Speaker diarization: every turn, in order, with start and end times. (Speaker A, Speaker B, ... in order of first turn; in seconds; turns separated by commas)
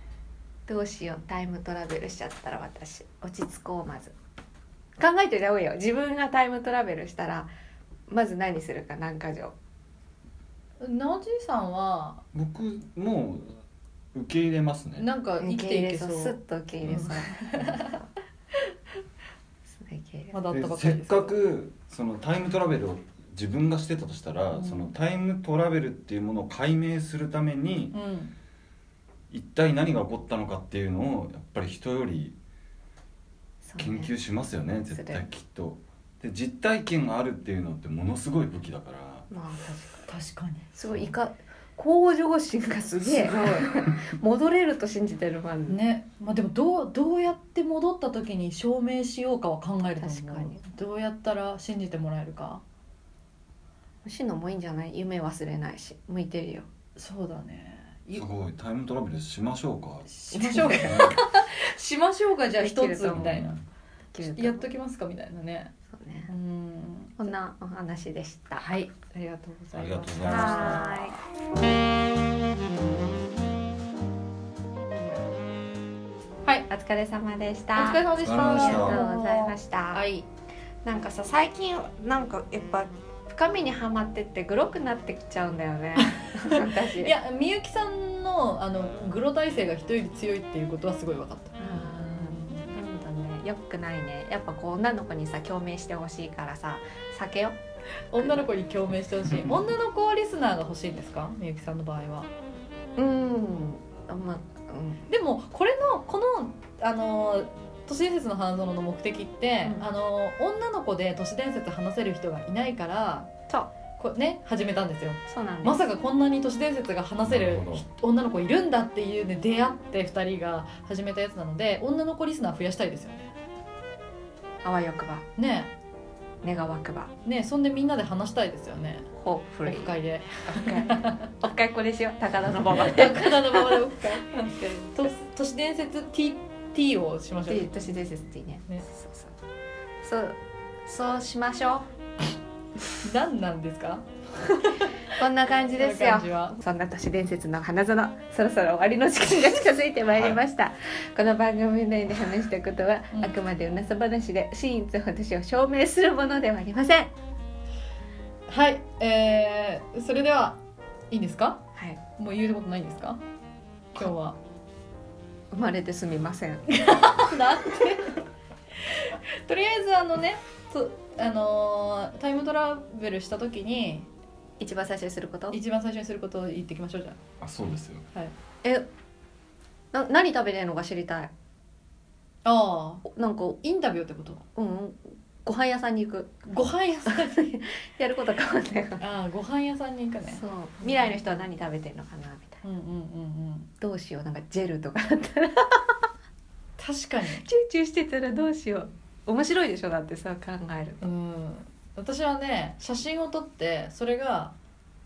Speaker A: 0.7-4.1, Speaker A: 5.0-7.5, Speaker A: 8.1-9.5, Speaker B: 10.8-12.2, Speaker C: 12.3-13.5, Speaker C: 14.1-15.1, Speaker B: 15.0-16.4, Speaker A: 15.4-18.1, Speaker B: 16.9-17.9, Speaker A: 19.7-20.4, Speaker B: 20.3-21.3, Speaker C: 20.5-27.9, Speaker B: 27.9-28.3, Speaker C: 29.3-32.4, Speaker A: 33.6-34.1, Speaker C: 33.8-39.3, Speaker A: 34.9-35.2, Speaker A: 39.3-40.1, Speaker B: 40.1-40.7, Speaker A: 40.7-45.8, Speaker B: 43.0-43.8, Speaker B: 45.7-52.6, Speaker A: 50.0-50.6, Speaker A: 54.0-56.7, Speaker B: 57.0-58.3, Speaker C: 58.1-61.2, Speaker B: 60.1-63.6, Speaker A: 60.3-61.2, Speaker A: 62.6-63.4, Speaker C: 63.1-63.6, Speaker A: 64.1-64.6, Speaker B: 64.2-65.7, Speaker A: 65.9-66.3, Speaker B: 66.3-67.2, Speaker A: 67.2-68.7, Speaker B: 68.6-71.1, Speaker C: 69.7-70.9, Speaker A: 70.2-71.2, Speaker A: 76.6-80.1, Speaker B: 77.7-80.3, Speaker C: 78.2-79.0, Speaker A: 80.8-87.1, Speaker B: 86.0-92.8, Speaker A: 91.6-97.6, Speaker B: 98.1-102.3, Speaker A: 98.2-98.4, Speaker A: 103.0-105.0, Speaker B: 105.1-113.3, Speaker A: 109.6-109.9, Speaker B: 114.0-123.3, Speaker A: 115.3-115.8, Speaker C: 117.2-117.8, Speaker A: 124.6-125.3, Speaker B: 125.4-125.7, Speaker A: 126.4-127.1, Speaker B: 127.2-129.1, Speaker A: 129.2-133.9, Speaker B: 129.7-131.3, Speaker B: 132.7-137.8, Speaker A: 137.5-139.3, Speaker A: 140.0-141.9, Speaker B: 143.0-145.1, Speaker A: 145.1-157.1, Speaker B: 145.8-146.6, Speaker C: 150.1-150.4, Speaker B: 158.5-160.6, Speaker B: 161.1-161.6, Speaker B: 162.2-163.2, Speaker B: 163.9-164.4, Speaker A: 165.5-167.3, Speaker B: 166.7-168.2, Speaker B: 168.8-174.1, Speaker A: 174.6-175.6, Speaker B: 175.5-177.2, Speaker C: 177.4-178.0, Speaker A: 179.9-181.3, Speaker B: 182.4-184.4, Speaker A: 183.1-183.6, Speaker A: 184.6-186.5, Speaker B: 186.5-187.3, Speaker A: 187.0-189.0, Speaker B: 189.0-190.9, Speaker A: 190.2-192.6, Speaker B: 192.6-193.7, Speaker A: 193.8-196.0, Speaker B: 196.8-197.4, Speaker A: 197.3-201.0, Speaker B: 201.0-204.5